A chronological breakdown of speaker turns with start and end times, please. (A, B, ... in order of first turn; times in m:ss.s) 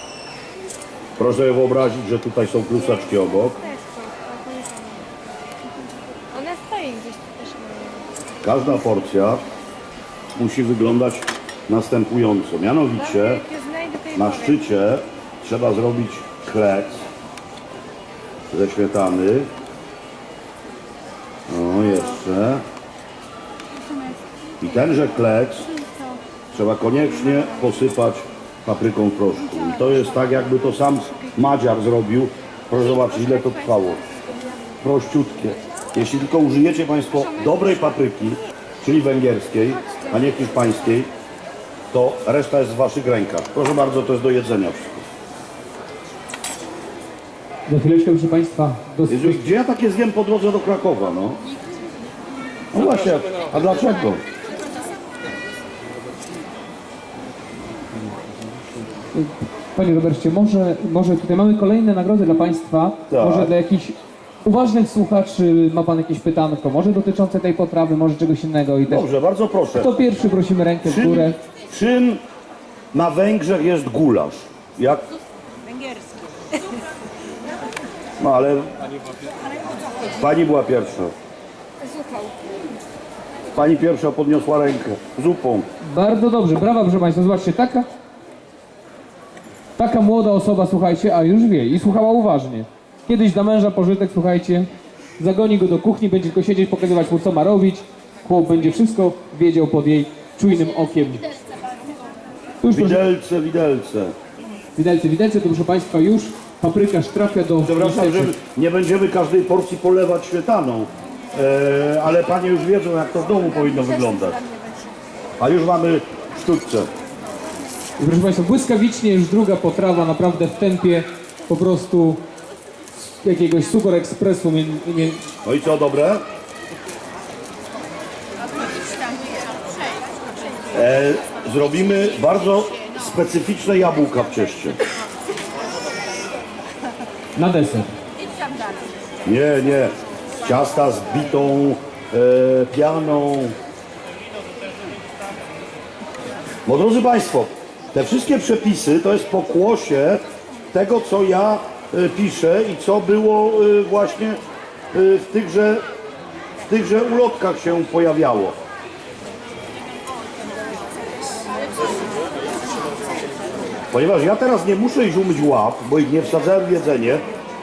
0:01.2-0:03.6 A
0:03.8-0:05.0 B
0:06.3-0:08.0 B
0:08.4-0:09.4 A
0:10.4-0:13.5 A
0:13.6-0:14.0 B
0:14.1-0:17.0 A
0:18.5-0:19.5 A
0:21.5-0:22.6 A
0:24.6-0:25.7 A
0:26.5-0:34.0 A
0:34.8-0:41.1 A
0:41.9-0:45.0 A
0:47.7-0:49.5 C
0:49.1-0:51.4 A
0:52.7-0:54.2 A
0:59.1-1:09.0 C
1:03.1-1:03.5 A
1:08.9-1:09.9 A
1:09.8-1:11.4 C
1:10.9-1:12.2 A
1:12.9-1:15.0 A
1:18.2-1:18.7 A
1:20.2-1:21.1 A
1:23.6-1:25.7 A
1:25.8-1:27.9 C
1:29.8-1:41.2 C
1:42.6-1:43.0 C
1:42.7-1:44.1 A
1:44.8-1:48.3 C
1:47.6-1:54.4 A
1:55.4-1:56.9 A
1:58.0-2:02.2 C
2:03.0-2:05.2 C
2:05.4-2:06.2 A
2:10.7-2:14.8 A
2:17.4-2:17.9 C
2:19.3-2:23.6 A
2:26.7-2:34.4 A
2:34.9-2:35.8 A
2:36.7-2:38.6 A
2:43.9-2:47.2 A